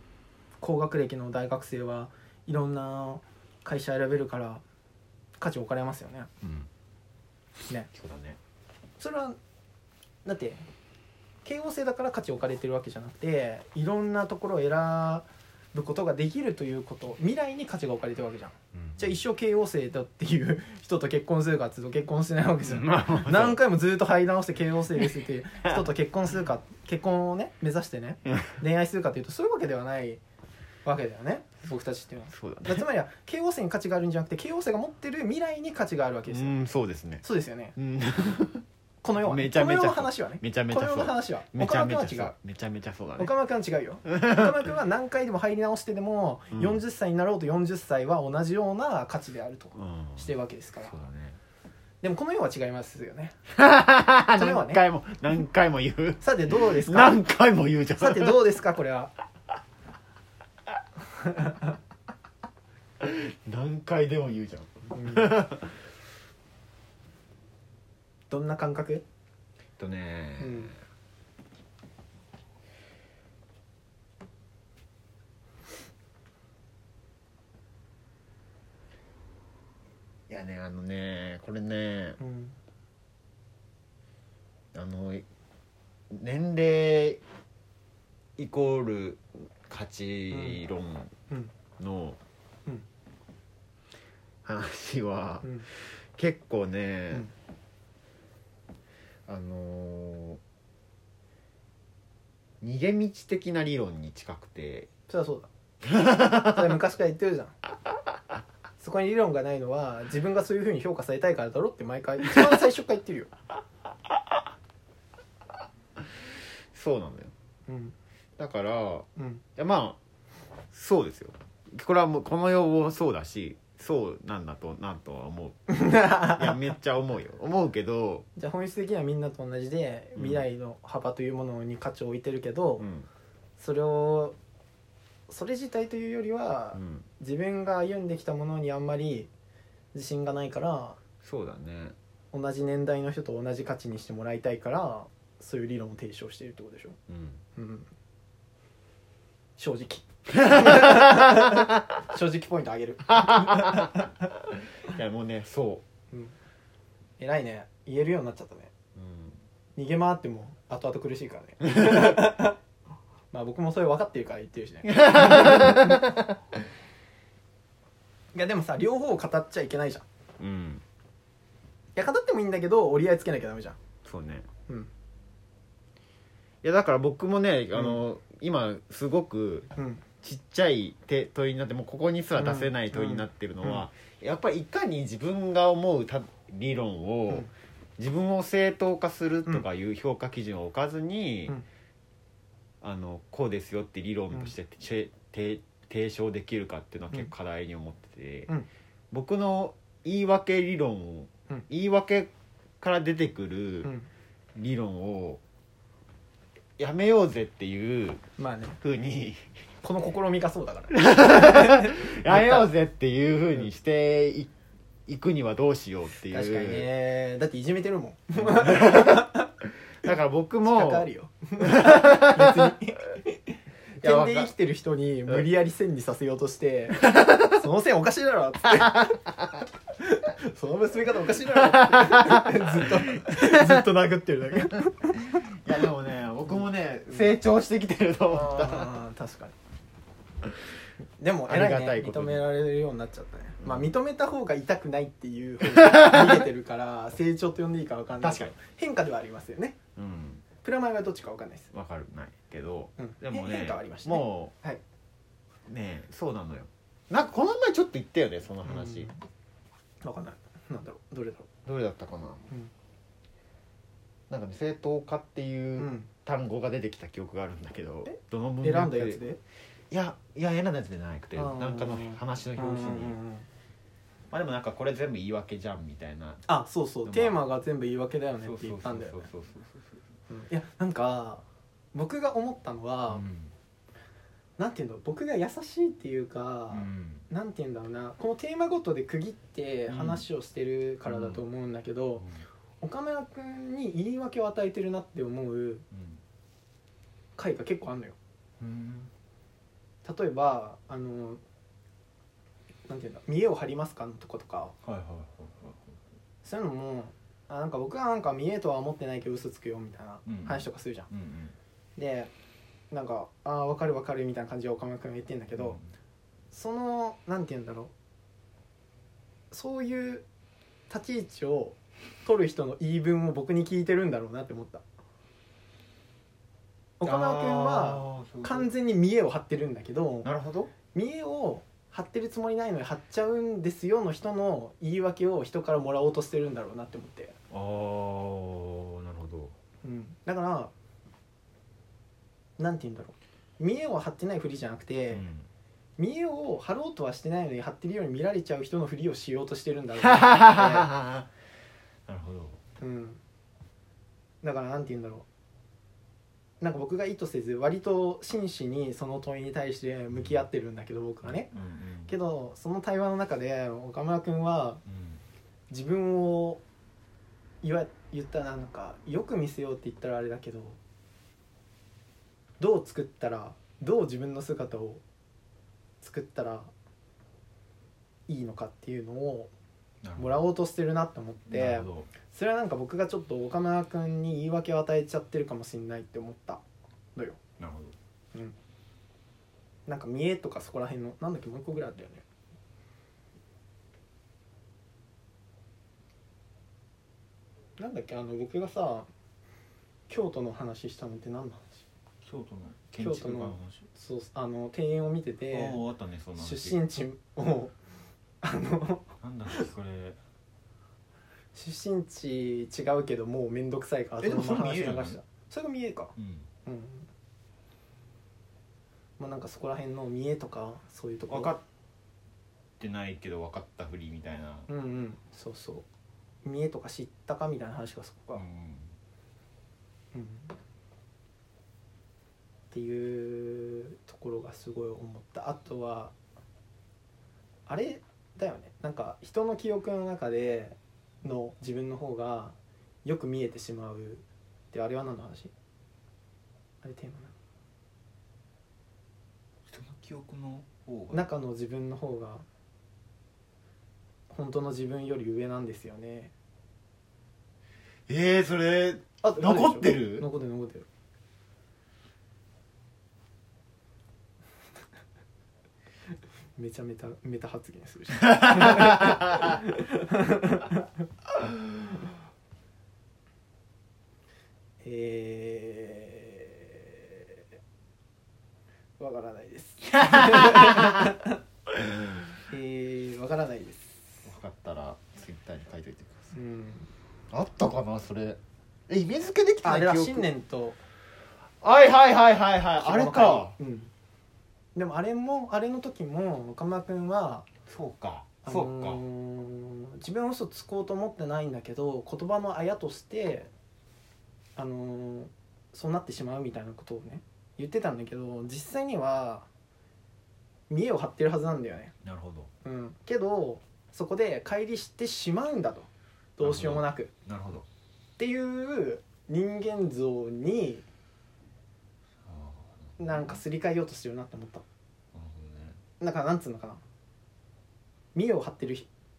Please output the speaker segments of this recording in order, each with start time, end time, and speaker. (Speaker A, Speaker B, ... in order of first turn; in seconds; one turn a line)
Speaker A: 0.6-4.6
Speaker A: 5.4-6.3
Speaker B: 6.4-6.7
Speaker B: 7.9-8.4
Speaker A: 9.0-9.4
Speaker A: 10.2-10.6
Speaker A: 11.4-30.2
Speaker B: 18.8-19.1
Speaker B: 22.6-23.6
Speaker B: 28.3-28.6
Speaker A: 30.9-36.6
Speaker B: 32.3-32.8
Speaker B: 36.3-37.2
Speaker A: 37.2-37.8
Speaker B: 37.8-38.6
Speaker A: 39.0-42.3
Speaker B: 39.2-43.3
Speaker A: 43.2-51.0
Speaker B: 44.1-44.5
Speaker B: 46.5-46.8
Speaker B: 49.8-50.3
Speaker B: 50.8-51.4
Speaker A: 52.0-53.4
Speaker B: 53.5-58.4
Speaker A: 54.3-54.8
Speaker A: 56.2-57.2
Speaker A: 58.0-59.1
Speaker A: 61.2-61.7
Speaker B: 63.0-65.8
Speaker A: 64.9-65.3
Speaker A: 68.3-69.0
Speaker B: 69.8-70.8
Speaker A: 70.4-70.7
Speaker B: 80.3-82.2
Speaker A: 82.2-82.6
Speaker B: 84.7-85.2
Speaker B: 86.1-87.2
Speaker B: 88.4-91.1
Speaker A: 90.3-90.6
Speaker B: 91.8-92.2
Speaker B: 94.5-97.3
Speaker B: 99.3-100.4
Speaker B: 102.6-104.9
Speaker A: 105.1-105.5
Speaker B: 105.9-106.5
Speaker A: 106.2-107.5
Speaker A: 108.8-113.3
Speaker B: 116.7-117.3
Speaker A: 117.7-117.9
Speaker B: 118.4-120.0
Speaker A: 119.2-119.4
Speaker B: 120.7-128.3
Speaker A: 125.7-126.5
Speaker A: 128.3-132.9
Speaker B: 130.2-130.4
Speaker B: 132.8-133.1
Speaker A: 133.6-134.4
Speaker A: 135.3-139.3
Speaker B: 136.7-137.1
Speaker A: 139.9-141.0
Speaker B: 141.2-141.9
Speaker A: 142.3-147.0
Speaker B: 147.1-147.4
Speaker A: 147.6-147.9
Speaker A: 149.6-154.1
Speaker B: 150.4-151.0
Speaker B: 153.2-154.0
Speaker B: 154.8-155.8
Speaker A: 157.2-158.7
Speaker B: 158.9-159.4
Speaker A: 159.8-162.6
Speaker A: 163.3-166.0
Speaker B: 164.9-166.3
Speaker A: 168.3-170.1
Speaker B: 170.4-170.8
Speaker A: 172.0-173.8
Speaker B: 174.1-174.5
Speaker B: 176.6-179.7
Speaker A: 177.7-178.0
Speaker A: 179.8-180.0
Speaker B: 180.2-191.6
Speaker A: 182.4-183.8
Speaker B: 192.8-198.5
Speaker B: 199.1-203.9
Speaker B: 204.6-205.4
Speaker B: 206.8-208.2
Speaker A: 208.4-208.8
Speaker B: 208.8-209.5
Speaker A: 209.8-212.7
Speaker B: 210.9-214.5
Speaker B: 215.1-216.8
Speaker A: 216.3-219.5
Speaker B: 218.4-219.3
Speaker B: 220.0-221.1
Speaker A: 220.7-223.3
Speaker B: 221.7-222.4
Speaker A: 224.0-229.2
Speaker B: 224.0-224.5
Speaker B: 228.9-229.2
Speaker A: 230.0-235.4
Speaker B: 231.7-233.6
Speaker B: 235.6-238.9
Speaker A: 238.3-239.6
Speaker A: 241.2-249.8
Speaker B: 241.5-242.5
Speaker B: 243.6-243.9
Speaker B: 245.8-246.4
Speaker B: 248.2-248.6
Speaker B: 250.0-250.4
Speaker A: 250.6-251.7
Speaker B: 251.7-254.5
Speaker A: 253.0-254.8
Speaker B: 255.7-259.1
Speaker A: 258.6-259.2
Speaker A: 260.0-261.5
Speaker B: 261.7-262.5
Speaker B: 264.3-269.2
Speaker A: 265.8-266.1
Speaker A: 268.1-269.4
Speaker B: 269.9-273.2
Speaker A: 271.4-273.5
Speaker B: 274.3-276.4
Speaker A: 276.5-279.3
Speaker B: 277.1-277.4
Speaker B: 278.4-280.0
Speaker A: 280.3-283.2
Speaker B: 283.1-283.5
Speaker A: 284.6-292.3
Speaker B: 286.7-287.3
Speaker B: 289.9-290.2
Speaker B: 291.1-291.4
Speaker B: 292.2-292.4
Speaker A: 292.8-295.8
Speaker B: 295.9-296.2
Speaker A: 297.4-298.2
Speaker B: 298.6-299.1
Speaker A: 300.0-301.4
Speaker A: 302.9-304.8
Speaker B: 304.8-306.0
Speaker A: 306.4-311.1
Speaker B: 310.2-311.5
Speaker A: 312.0-312.3
Speaker A: 312.9-315.8
Speaker B: 315.6-315.9
Speaker A: 316.5-317.9
Speaker A: 319.5-320.2
Speaker A: 320.9-324.8
Speaker A: 327.0-330.3
Speaker B: 327.0-328.7
Speaker B: 330.2-330.7
Speaker A: 330.9-337.4
Speaker B: 337.5-339.5
Speaker A: 339.8-340.7
Speaker A: 342.6-345.2
Speaker B: 345.1-345.5
Speaker A: 346.0-350.9
Speaker B: 350.0-351.3
Speaker B: 352.1-352.6
Speaker A: 352.8-353.2
Speaker A: 354.4-355.2
Speaker A: 356.6-361.5
Speaker B: 360.1-360.4
Speaker B: 361.2-362.1
Speaker A: 362.1-364.8
Speaker B: 364.9-365.2
Speaker A: 365.7-366.6
Speaker A: 367.6-370.8
Speaker A: 372.6-375.0
Speaker A: 376.0-376.7
Speaker A: 378.3-379.5
Speaker B: 380.0-380.4
Speaker A: 380.2-386.6
Speaker B: 381.5-382.1
Speaker B: 387.6-387.9
Speaker A: 389.9-392.2
Speaker A: 397.8-399.1
Speaker A: 400.1-401.8
Speaker B: 402.2-403.9
Speaker A: 403.0-405.8
Speaker B: 405.5-406.8
Speaker A: 406.4-407.8
Speaker A: 408.4-409.1
Speaker B: 409.2-410.2
Speaker A: 411.6-416.1
Speaker B: 414.2-415.2
Speaker B: 416.2-416.5
Speaker A: 416.6-417.1
Speaker A: 419.2-421.5
Speaker B: 421.3-421.6
Speaker B: 422.8-424.7
Speaker A: 424.7-425.9
Speaker A: 426.4-428.4
Speaker B: 428.4-428.9
Speaker A: 430.1-430.5
Speaker A: 432.7-436.1
Speaker A: 437.7-445.5
Speaker A: 446.8-447.3
Speaker B: 449.7-451.3
Speaker A: 451.1-452.4
Speaker A: 454.3-456.3
Speaker B: 458.1-460.2
Speaker A: 459.2-460.9
Speaker A: 466.6-470.9
Speaker B: 468.3-469.1
Speaker A: 474.8-477.4
Speaker A: 479.0-481.4
Speaker B: 480.0-481.1
Speaker B: 481.8-482.3
Speaker A: 482.5-484.3
Speaker B: 484.2-486.3
Speaker A: 486.3-486.9
Speaker B: 487.3-490.3
Speaker A: 489.6-490.8
Speaker B: 491.6-493.6
Speaker A: 492.8-493.9
Speaker A: 494.8-497.4
Speaker B: 497.7-499.0
Speaker A: 498.4-503.5
Speaker A: 504.6-509.5
Speaker A: 510.7-511.9
Speaker B: 512.0-512.5
Speaker A: 512.6-517.1
Speaker B: 516.4-517.6
Speaker A: 518.2-520.9
Speaker B: 522.2-523.4
Speaker A: 523.0-524.6
Speaker B: 525.1-525.8
Speaker A: 526.0-526.8
Speaker A: 528.1-528.9